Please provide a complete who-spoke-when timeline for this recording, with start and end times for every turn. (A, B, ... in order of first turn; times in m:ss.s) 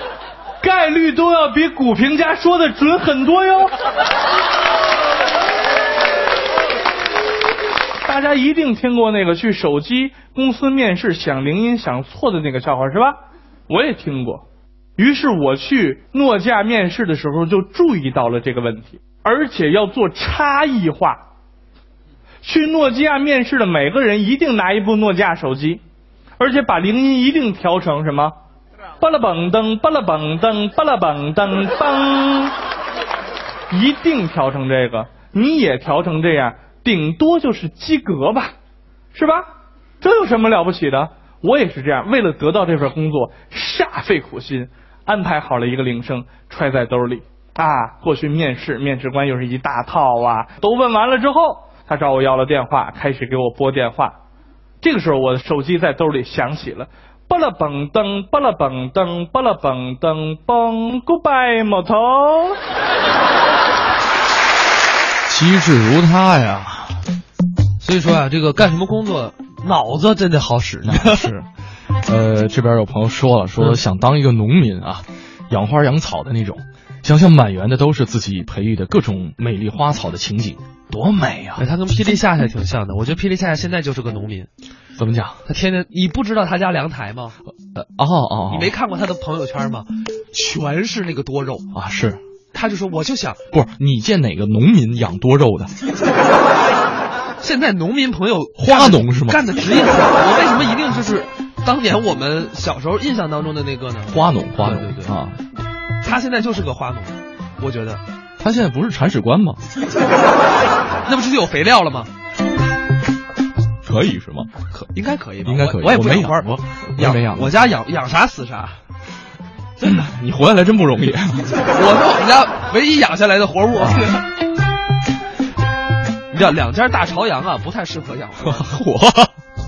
0:00.6-0:03.7 A
0:08.0-0:13.2 A
0:13.7-0:14.4 A
0:15.0-0:21.2 A
0:22.4-0:25.8 A
0:26.4-0:28.3 A
0:29.0-0:32.6 A
0:33.7-0:38.5 A
0:39.1-0:39.5 A
0:40.0-0:54.2 A
0:54.8-1:02.6 A
1:05.3-1:07.0 B
1:07.8-1:11.3 C
1:10.8-1:11.5 B
1:12.0-1:21.6 B
1:21.6-1:24.5 C
1:25.0-1:25.4 B
1:25.5-1:27.4 C
1:27.7-1:28.7 B
1:28.5-1:31.7 C
1:31.7-1:32.2 B
1:32.5-1:33.4 C
1:33.5-1:35.7 B
1:37.4-1:45.2 C
1:38.6-1:39.4 B
1:44.1-1:45.4 B
1:46.0-1:48.0 C
1:48.4-1:49.6 B
1:51.0-1:52.1 C
1:53.8-1:54.5 B
1:54.7-1:58.8 C
1:55.4-1:57.5 B
1:59.8-2:01.6 B
2:01.7-2:04.3 C
2:03.8-2:04.1 B
2:06.3-2:08.7 C
2:08.4-2:09.3 B